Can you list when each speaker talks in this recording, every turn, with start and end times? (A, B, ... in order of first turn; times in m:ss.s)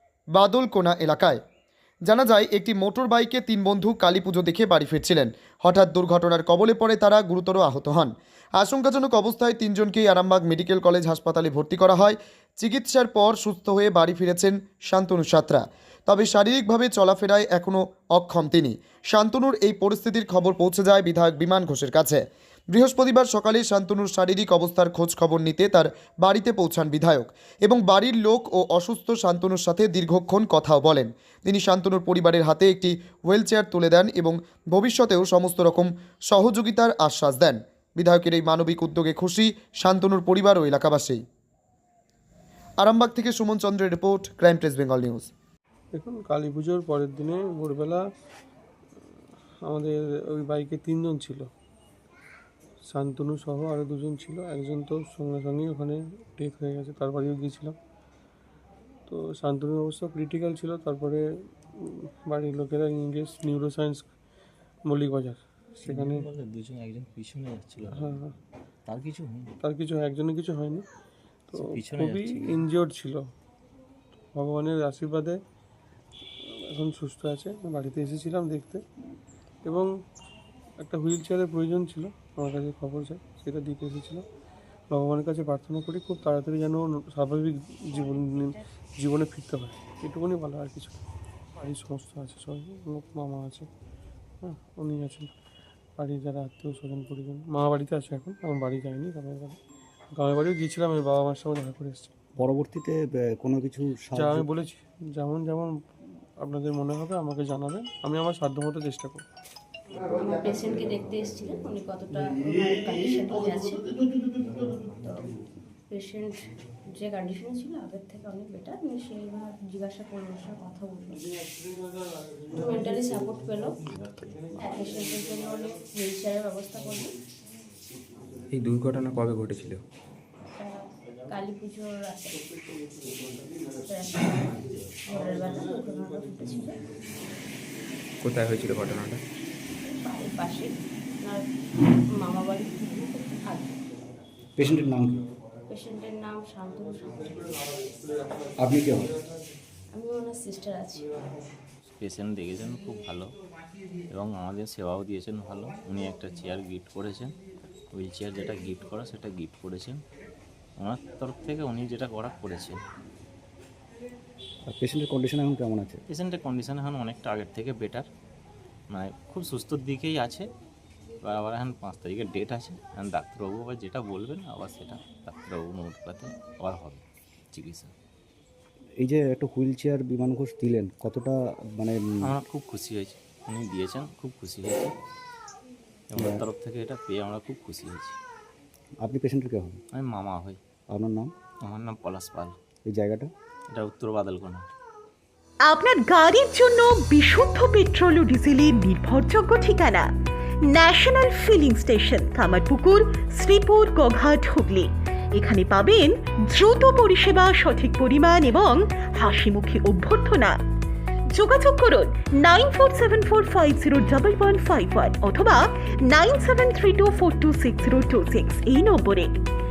0:00.3-0:01.4 A
0:02.1-0:41.2 A
0:42.8-0:45.3 A
0:46.0-0:48.0 B
0:49.7-0:51.4 B
0:52.9-0:57.7 B
0:59.1-1:01.2 B
1:01.8-1:04.0 B
1:04.9-1:05.4 B
1:05.8-1:08.2 C
1:08.9-1:09.5 C
1:09.6-1:10.8 B
1:11.5-1:12.6 C
1:11.9-1:13.2 B
1:14.4-1:15.4 B
1:16.7-1:18.8 B
1:20.8-1:24.2 B
1:24.9-1:31.0 B
1:27.9-1:28.6 D
1:31.6-1:33.7 B
1:34.4-1:35.3 B
1:36.0-1:39.5 B
1:40.2-1:42.1 B
1:42.4-1:44.5 E
1:44.2-1:45.7 B
1:46.4-1:49.2 B
1:50.0-1:54.0 D
1:54.6-1:55.3 D
1:55.9-2:01.2 D
2:02.5-2:03.8 D
2:04.6-2:07.2 D
2:08.5-2:09.8 F
2:10.6-2:12.5 D
2:13.8-2:16.8 D
2:18.2-2:19.2 F
2:19.8-2:23.8 D
2:24.6-2:25.2 E
2:25.7-2:27.8 D
2:28.6-2:29.1 E
2:29.9-2:31.1 D
2:32.0-2:33.3 C
2:34.1-2:37.3 C
2:37.9-2:40.0 C
2:40.8-2:42.8 C
2:44.7-2:46.0 E
2:46.1-2:48.1 C
2:48.9-2:50.5 C
2:51.2-2:57.9 C
2:59.0-3:02.0 E
3:02.2-3:04.9 C
3:06.1-3:08.2 C
3:09.0-3:09.8 E
3:09.9-3:10.6 C
3:10.9-3:11.3 E
3:11.6-3:12.5 C
3:12.9-3:13.3 E
3:13.7-3:14.7 C
3:15.6-3:20.1 G
3:20.7-3:30.6 G
3:31.3-3:39.3 G